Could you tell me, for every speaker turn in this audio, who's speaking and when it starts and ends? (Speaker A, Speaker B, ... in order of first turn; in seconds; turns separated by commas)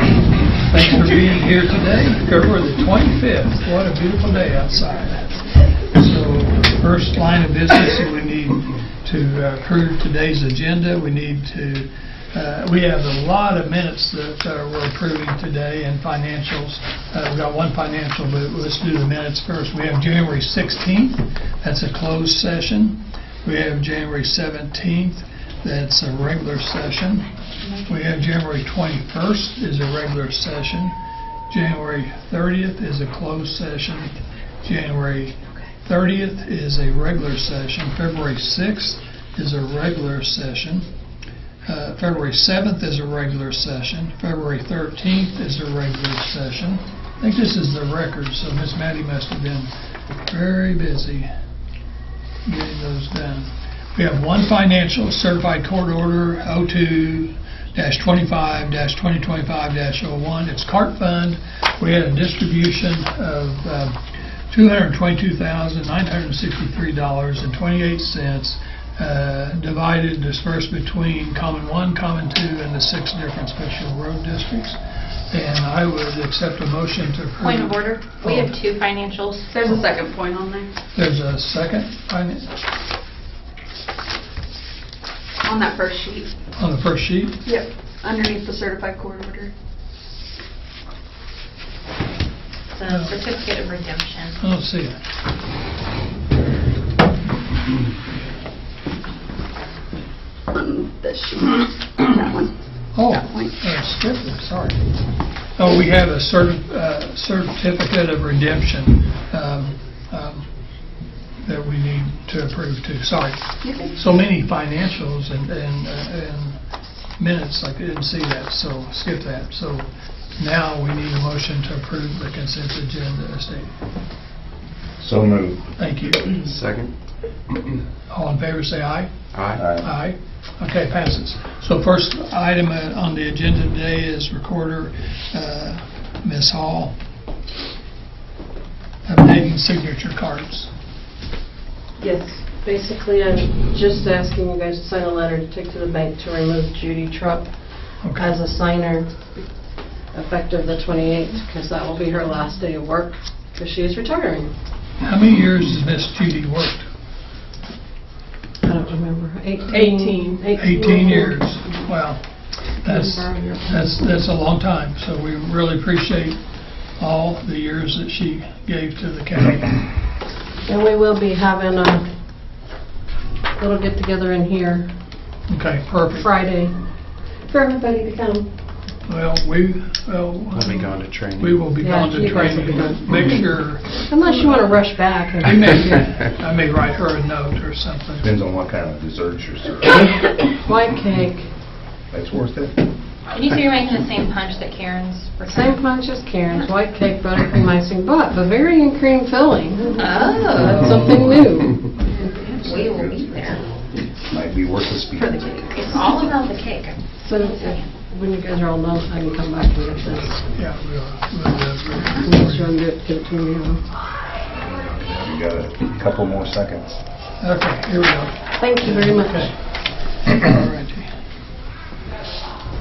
Speaker A: 0.6-27.3, Speaker A: 27.9-31.0, Speaker A: 31.5-40.9, Speaker A: 41.6-49.7, Speaker A: 50.3-51.3, Speaker A: 52.5-64.0, Speaker A: 64.5-74.8, Speaker A: 75.3-78.6, Speaker B: 77.4-79.5, Speaker C: 79.5-80.7, Speaker A: 80.9-82.5, Speaker C: 85.4-86.3, Speaker A: 86.6-87.4, Speaker C: 87.5-89.5, Speaker B: 92.7-94.4, Speaker A: 92.9-93.2, Speaker A: 94.4-95.0, Speaker C: 100.5-102.5, Speaker A: 102.9-104.8, Speaker C: 103.1-103.6, Speaker A: 105.6-110.5, Speaker A: 111.4-116.6, Speaker C: 113.6-114.0, Speaker A: 117.2-123.7, Speaker D: 125.0-125.7, Speaker A: 125.8-126.3, Speaker E: 126.4-126.9, Speaker A: 128.1-129.1, Speaker E: 129.3-129.6, Speaker D: 129.6-129.9, Speaker A: 129.8-136.9, Speaker A: 139.1-140.7, Speaker F: 142.0-149.1, Speaker A: 148.0-148.3, Speaker F: 150.1-154.5, Speaker A: 155.0-156.9, Speaker F: 158.6-161.4, Speaker C: 159.7-160.8, Speaker A: 160.6-166.4, Speaker C: 162.8-163.8, Speaker A: 167.0-169.8, Speaker F: 170.7-172.1, Speaker F: 173.6-174.9, Speaker A: 175.5-176.3, Speaker F: 176.1-176.8, Speaker F: 177.5-178.5, Speaker A: 179.1-184.1, Speaker E: 180.5-181.7, Speaker F: 181.8-183.2, Speaker F: 184.1-186.0, Speaker A: 185.4-188.3, Speaker D: 188.2-190.3, Speaker F: 190.7-191.5, Speaker D: 192.1-192.8, Speaker B: 193.3-195.8, Speaker F: 195.4-202.0, Speaker B: 200.0-201.0, Speaker B: 202.2-203.6, Speaker D: 202.6-203.6, Speaker D: 204.2-205.6, Speaker C: 205.2-206.2, Speaker B: 205.7-207.9, Speaker F: 207.2-210.4, Speaker A: 210.5-212.7, Speaker F: 212.2-213.8, Speaker D: 214.5-216.9, Speaker A: 217.4-219.6, Speaker F: 218.6-219.5, Speaker A: 220.2-221.1